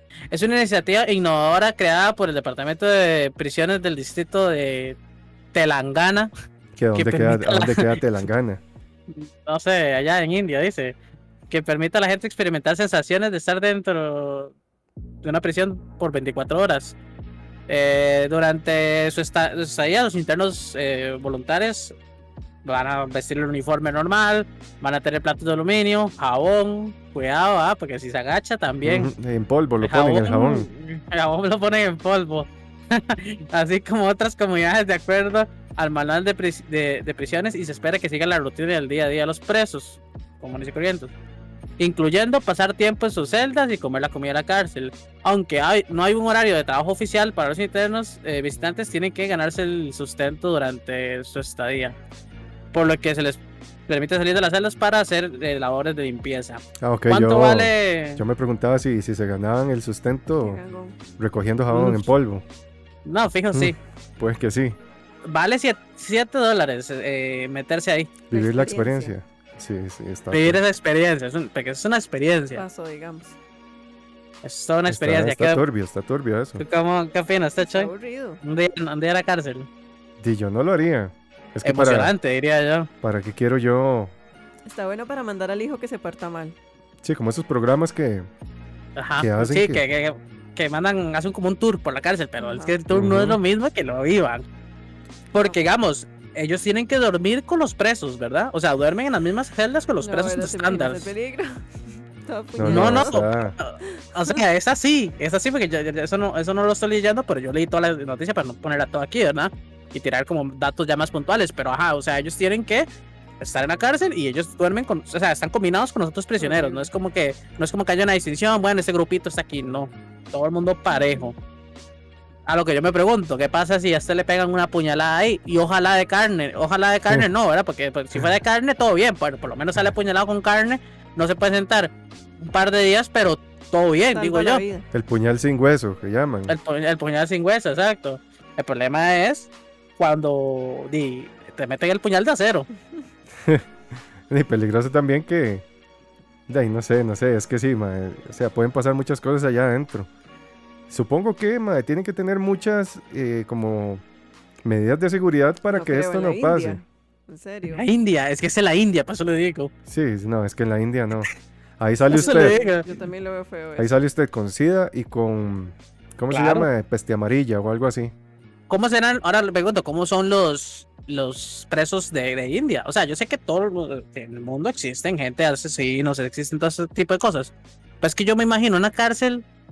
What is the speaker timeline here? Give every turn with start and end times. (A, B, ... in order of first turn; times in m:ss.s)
0:00.3-0:05.0 A
0:05.5-0:06.3 A
0:06.8-0:08.6 B
0:07.0-0:08.0 A
0:09.1-0:11.0 A
0:11.5-0:14.5 A
0:15.2-0:17.0 A
0:17.7-0:22.0 A
0:22.6-0:29.1 A
0:28.8-0:30.7 B
0:29.8-0:41.1 A
0:41.8-0:52.0 A
0:52.7-0:58.2 A
0:56.8-1:00.6 B
1:00.4-1:01.0 C
1:01.2-1:02.4 B
1:01.7-1:02.1 A
1:03.0-1:03.8 A
1:03.5-1:04.8 B
1:05.3-1:08.1 A
1:08.3-1:10.6 B
1:08.3-1:09.1 C
1:10.3-1:12.6 A
1:12.6-1:13.4 C
1:14.4-1:15.6 A
1:14.9-1:16.6 B
1:16.6-1:17.9 A
1:17.6-1:18.4 C
1:18.4-1:19.7 A
1:20.2-1:22.1 B
1:21.6-1:22.9 A
1:23.0-1:24.1 B
1:24.7-1:26.6 C
1:27.0-1:28.3 B
1:29.0-1:34.4 A
1:29.2-1:29.8 B
1:32.4-1:32.8 C
1:32.9-1:33.4 B
1:35.3-1:41.1 A
1:35.4-1:35.7 C
1:40.0-1:44.4 C
1:42.6-1:43.6 B
1:42.6-1:52.9 A
1:53.4-2:01.4 A
1:56.4-1:56.9 C
2:00.9-2:01.3 C
2:02.5-2:14.6 A
2:14.1-2:14.9 C
2:14.9-2:16.5 B
2:16.5-2:22.7 A
2:24.3-2:25.6 B
2:26.5-2:30.1 B
2:30.9-2:34.0 B
2:34.6-2:36.8 B
2:35.7-2:37.8 C
2:37.6-2:39.7 A
2:39.9-2:42.5 B
2:42.0-2:43.9 C
2:42.1-2:42.9 A
2:43.8-2:48.1 B
2:46.3-2:46.7 A
2:48.7-2:59.4 A